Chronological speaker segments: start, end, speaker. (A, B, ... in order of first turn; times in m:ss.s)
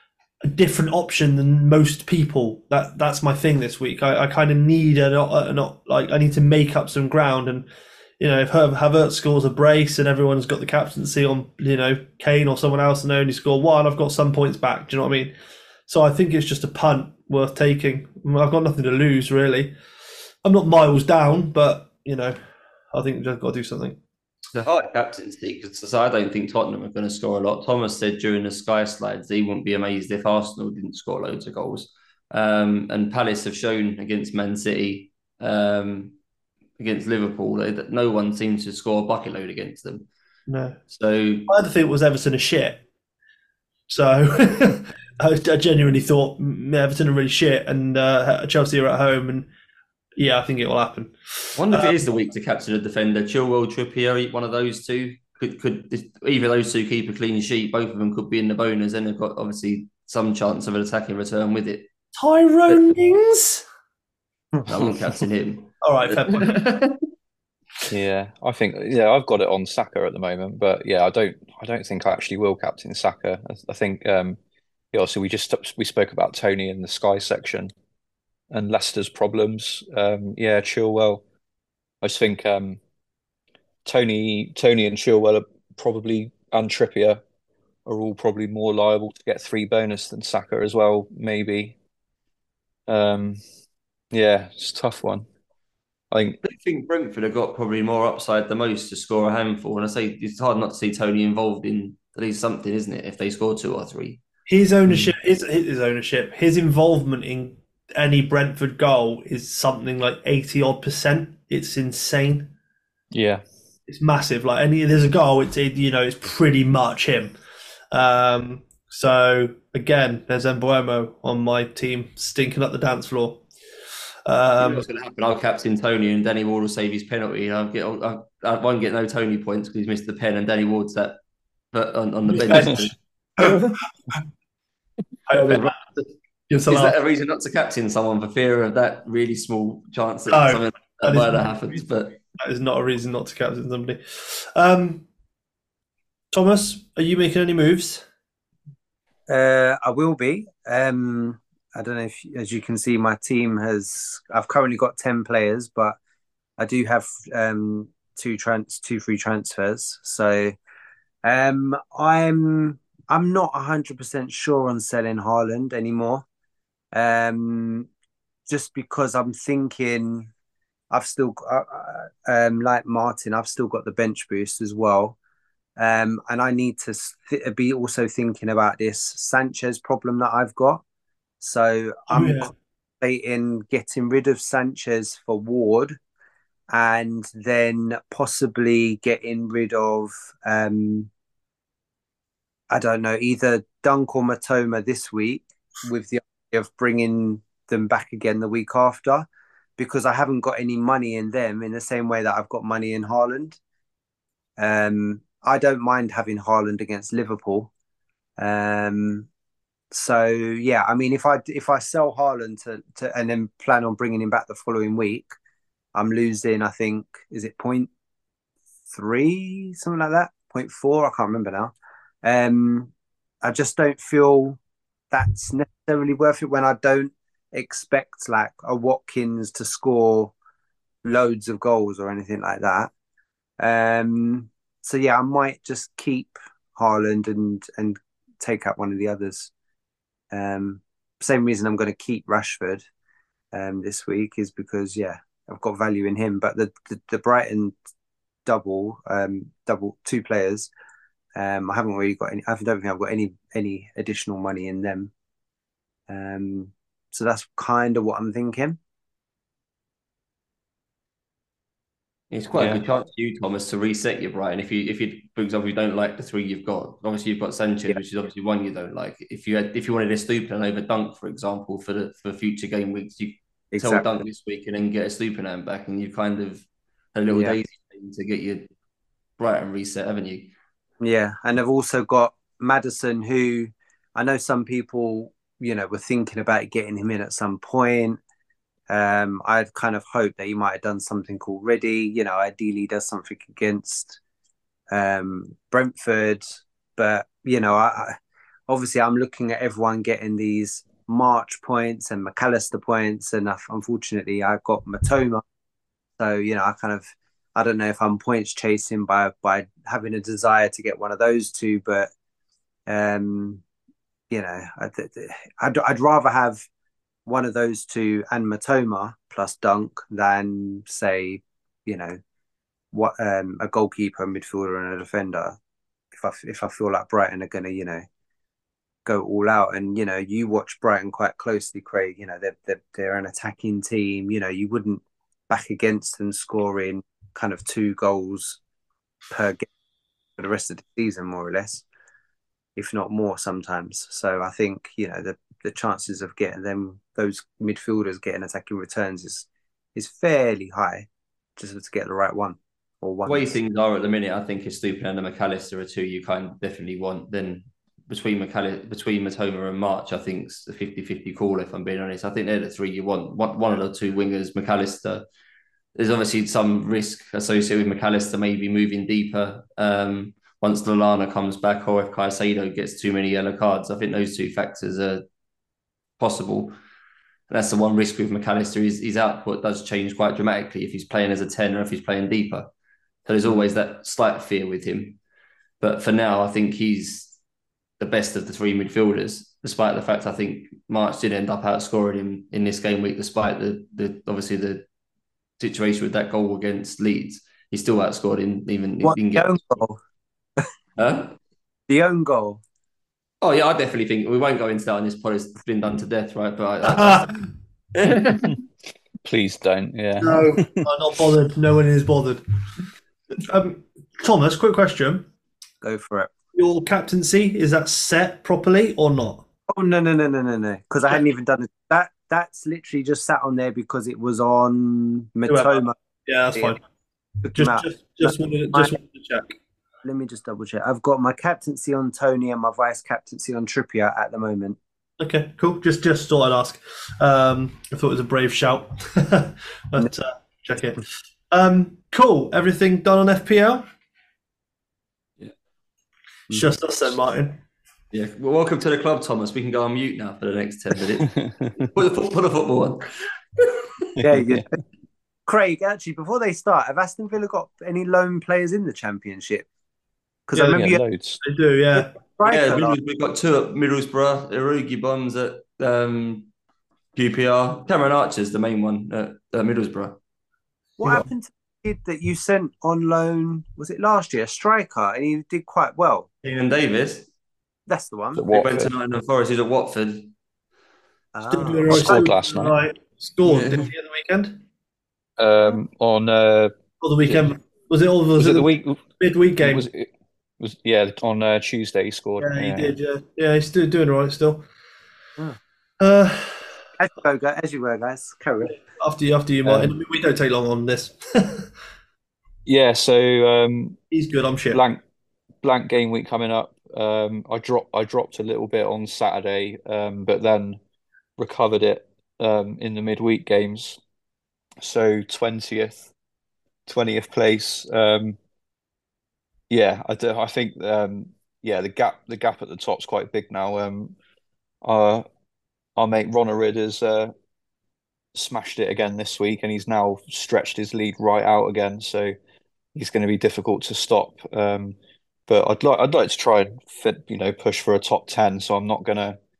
0:00.5-0:07.7 A
0:08.2-0:15.3 A
0:15.9-0:19.7 A
0:20.4-0:22.4 A
0:22.9-0:24.0 A
0:24.5-0:36.2 B
0:36.8-0:40.1 B
0:40.5-0:40.8 A
0:40.9-0:41.5 B
0:41.5-0:42.8 A
0:43.9-0:49.5 A
0:50.2-0:52.0 A
0:51.6-1:01.9 B
1:02.2-1:03.6 A
1:04.6-1:07.0 B
1:05.8-1:06.5 A
1:07.9-1:14.4 C
1:14.9-1:17.7 C
1:18.5-1:21.2 C
1:22.0-1:22.8 C
1:23.8-1:27.2 C
1:27.8-1:31.8 C
1:32.9-1:33.4 C
1:34.1-1:35.2 C
1:36.1-1:36.4 C
1:36.4-1:44.2 B
1:44.5-1:52.5 A
1:44.9-1:45.1 C
1:53.1-1:53.4 C
1:53.9-1:57.3 A
1:57.9-2:03.4 A
2:04.2-2:04.8 A
2:04.6-2:11.2 B
2:11.7-2:13.7 B
2:12.3-2:12.8 A
2:12.6-2:12.8 C
2:15.3-2:16.9 A
2:15.3-2:15.7 B
2:16.7-2:22.2 B
2:20.3-2:21.8 A
2:22.4-2:25.0 A
2:26.3-2:28.0 A
2:29.3-2:36.0 D
2:36.6-2:40.6 D
2:41.2-2:46.2 D
2:46.9-2:47.9 D
2:48.5-2:50.3 D
2:50.9-2:55.2 D
2:55.8-3:00.8 D
3:01.4-3:06.0 D
3:02.1-3:02.5 A
3:06.7-3:11.1 D
3:12.7-3:23.6 D
3:24.6-3:27.7 D
3:28.4-3:29.3 D
3:29.9-3:35.4 D
3:35.9-3:37.9 D
3:38.9-3:42.9 D
3:43.4-3:44.6 D
3:45.1-3:50.3 D
3:51.0-3:52.9 D
3:53.6-3:59.5 D
4:00.3-4:02.8 D
4:03.5-4:07.7 D
4:08.4-4:10.7 D
4:11.4-4:15.1 D
4:16.1-4:18.8 D
4:22.3-4:38.7 B
4:22.5-4:22.8 C
4:33.7-4:34.2 D
4:37.3-4:37.6 D
4:39.4-4:40.5 B
4:41.0-4:48.2 D
4:48.9-4:54.2 D
4:54.9-4:58.2 D
4:58.7-5:05.4 D
5:06.2-5:12.1 D
5:12.9-5:13.6 D
5:14.3-5:16.6 D
5:17.3-5:22.2 D
5:22.9-5:25.6 D
5:26.1-5:28.0 D
5:29.0-5:38.6 D
5:39.3-5:39.7 D
5:40.4-5:41.9 D
5:42.8-5:53.6 D
5:53.2-6:05.3 B
6:06.0-6:15.2 B
6:16.2-6:16.8 B
6:17.5-6:22.7 B
6:23.3-6:25.2 B
6:25.8-6:27.3 B
6:28.0-6:34.8 B
6:35.6-6:39.6 B
6:39.0-6:40.0 D
6:41.0-6:41.3 B
6:41.9-6:42.6 D
6:43.4-6:47.3 B
6:46.9-6:47.4 A
6:47.9-6:48.6 B
6:49.2-6:50.9 C
6:50.2-6:52.4 A
6:53.5-6:55.3 A
6:55.8-6:56.3 D
6:56.6-6:59.4 A
6:59.7-7:05.9 D
7:05.5-7:06.8 A
7:06.5-7:06.8 D
7:07.4-7:09.0 D
7:07.6-7:09.6 A
7:10.0-7:14.8 D
7:15.2-7:23.8 A
7:26.5-7:27.6 A
7:28.1-7:33.1 B
7:31.3-7:31.9 C
7:34.2-7:34.7 C
7:34.2-7:34.7 D
7:35.5-7:39.6 D
7:40.5-7:41.0 D
7:40.6-7:40.9 A
7:40.7-7:41.4 C
7:41.4-7:42.1 A
7:42.0-7:43.0 D
7:42.4-7:46.5 B
7:47.1-7:50.2 B
7:51.0-7:56.3 D
7:56.4-7:57.3 B
7:57.9-7:58.4 D
7:58.3-7:58.9 C
7:58.5-8:00.3 B
8:01.3-8:02.3 D
8:01.5-8:04.6 A
8:01.9-8:02.7 C
8:03.4-8:03.9 B
8:05.4-8:06.7 C
8:07.0-8:09.9 A
8:08.4-8:09.0 C
8:09.6-8:13.0 C
8:12.4-8:14.6 A
8:16.0-8:16.7 A
8:17.0-8:18.8 D
8:19.0-8:21.7 A
8:19.6-8:19.9 C
8:22.6-8:24.0 C
8:24.1-8:24.8 A
8:24.7-8:25.0 C
8:25.6-8:30.8 C
8:31.4-8:34.0 C
8:34.8-8:36.1 C
8:36.9-8:38.4 C
8:39.7-8:44.1 C
8:44.8-8:45.2 C
8:46.0-8:47.3 C
8:48.3-8:52.3 C
8:52.9-8:55.0 C
8:55.5-8:59.4 C